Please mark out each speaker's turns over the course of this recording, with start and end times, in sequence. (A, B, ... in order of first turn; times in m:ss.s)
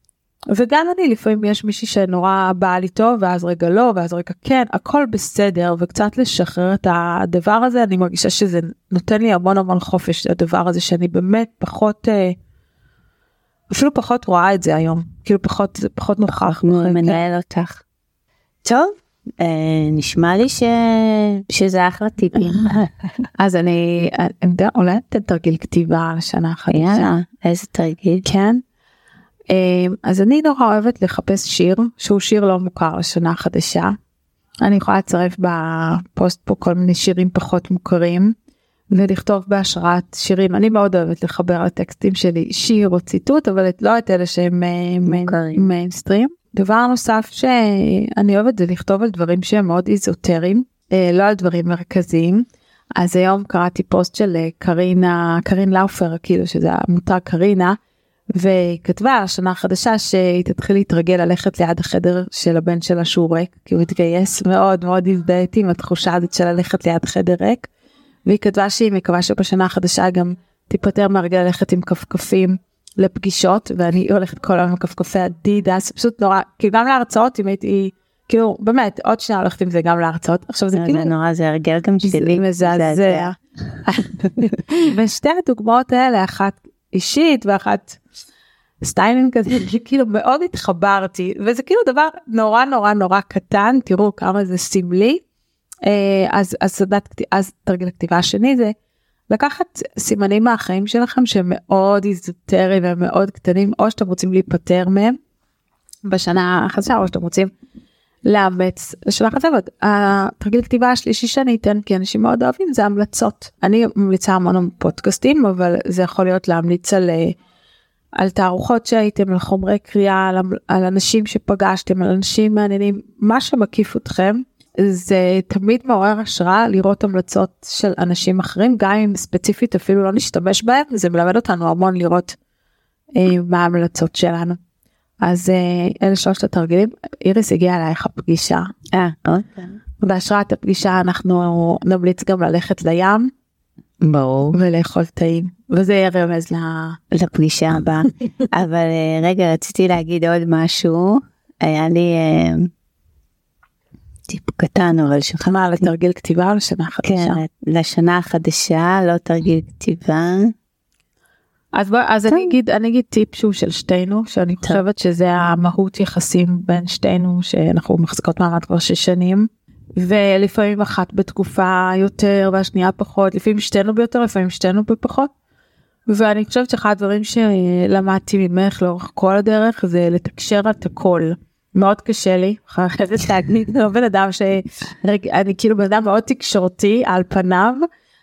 0:00.5-0:12.4 A
0:13.7-0:17.2 A
0:16.4-0:17.8 B
0:18.6-0:22.9 B
0:23.4-0:27.1 A
0:26.7-0:28.2 B
0:28.2-0:28.6 A
0:29.5-0:34.0 A
0:34.6-0:38.4 A
0:38.9-0:52.4 A
0:45.1-0:45.7 B
0:53.0-0:57.8 A
0:58.3-1:07.7 A
1:08.3-1:21.1 A
1:20.8-1:23.3 B
1:22.0-1:28.0 A
1:28.8-1:35.2 A
1:35.8-1:38.7 A
1:39.3-1:45.2 A
1:46.1-1:47.5 A
1:48.3-1:57.4 A
1:58.2-2:12.4 A
2:13.2-2:14.6 A
2:15.2-2:18.7 A
2:18.9-2:19.8 B
2:20.0-2:23.3 A
2:24.0-2:24.6 B
2:24.5-2:27.0 A
2:27.1-2:32.7 B
2:34.3-2:35.8 B
2:35.5-2:37.4 A
2:37.0-2:40.5 B
2:41.7-2:55.3 A
2:56.1-3:07.8 A